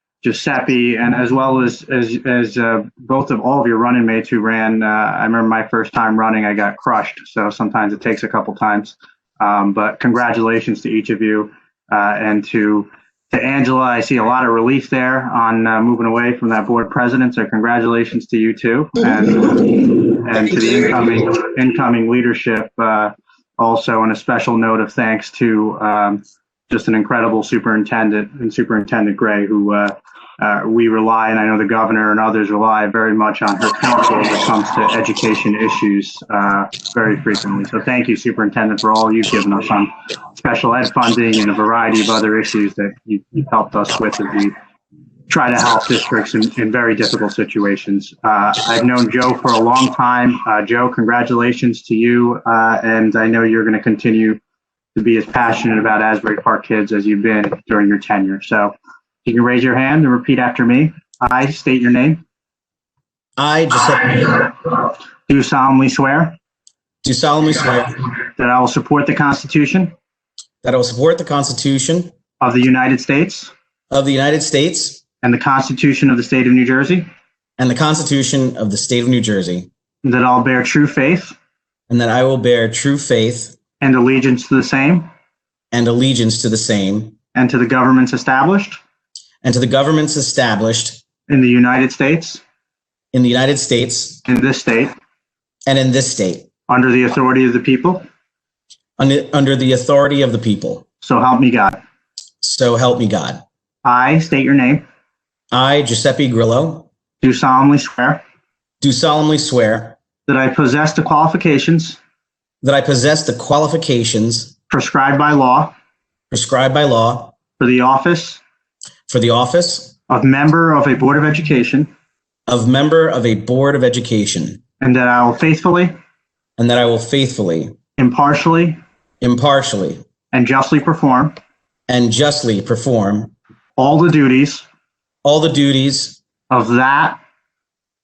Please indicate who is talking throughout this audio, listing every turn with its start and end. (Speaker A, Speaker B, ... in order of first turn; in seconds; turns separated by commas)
Speaker A: 0.2-44.5, Speaker A: 45.3-54.4, Speaker A: 54.9-62.2, Speaker B: 63.4-64.2, Speaker A: 65.3-66.3, Speaker B: 67.0-67.9, Speaker A: 68.3-69.9, Speaker B: 70.6-72.1, Speaker A: 72.4-73.5, Speaker B: 73.9-75.0, Speaker A: 75.2-77.1, Speaker B: 77.6-79.7, Speaker A: 80.0-81.3, Speaker B: 81.9-83.5, Speaker A: 83.8-85.1, Speaker B: 85.7-87.2, Speaker A: 87.3-88.8, Speaker B: 89.4-91.0, Speaker A: 91.3-92.4, Speaker B: 93.1-94.2, Speaker A: 94.2-94.9, Speaker B: 95.7-96.5, Speaker A: 96.7-98.0, Speaker B: 99.0-100.8, Speaker A: 101.0-101.8, Speaker B: 102.4-103.4, Speaker A: 103.8-104.8, Speaker B: 105.5-106.9, Speaker A: 107.2-108.2, Speaker B: 108.8-110.0, Speaker A: 110.3-112.0, Speaker B: 112.6-114.5, Speaker A: 114.7-115.7, Speaker B: 116.3-117.3, Speaker A: 117.6-118.4, Speaker B: 119.1-119.9, Speaker A: 120.1-121.9, Speaker B: 122.5-124.6, Speaker A: 124.8-126.0, Speaker B: 126.6-127.7, Speaker A: 128.0-128.8, Speaker B: 129.2-130.0, Speaker A: 130.3-131.3, Speaker B: 131.9-133.3, Speaker A: 133.8-134.7, Speaker B: 135.2-136.2, Speaker A: 136.5-137.2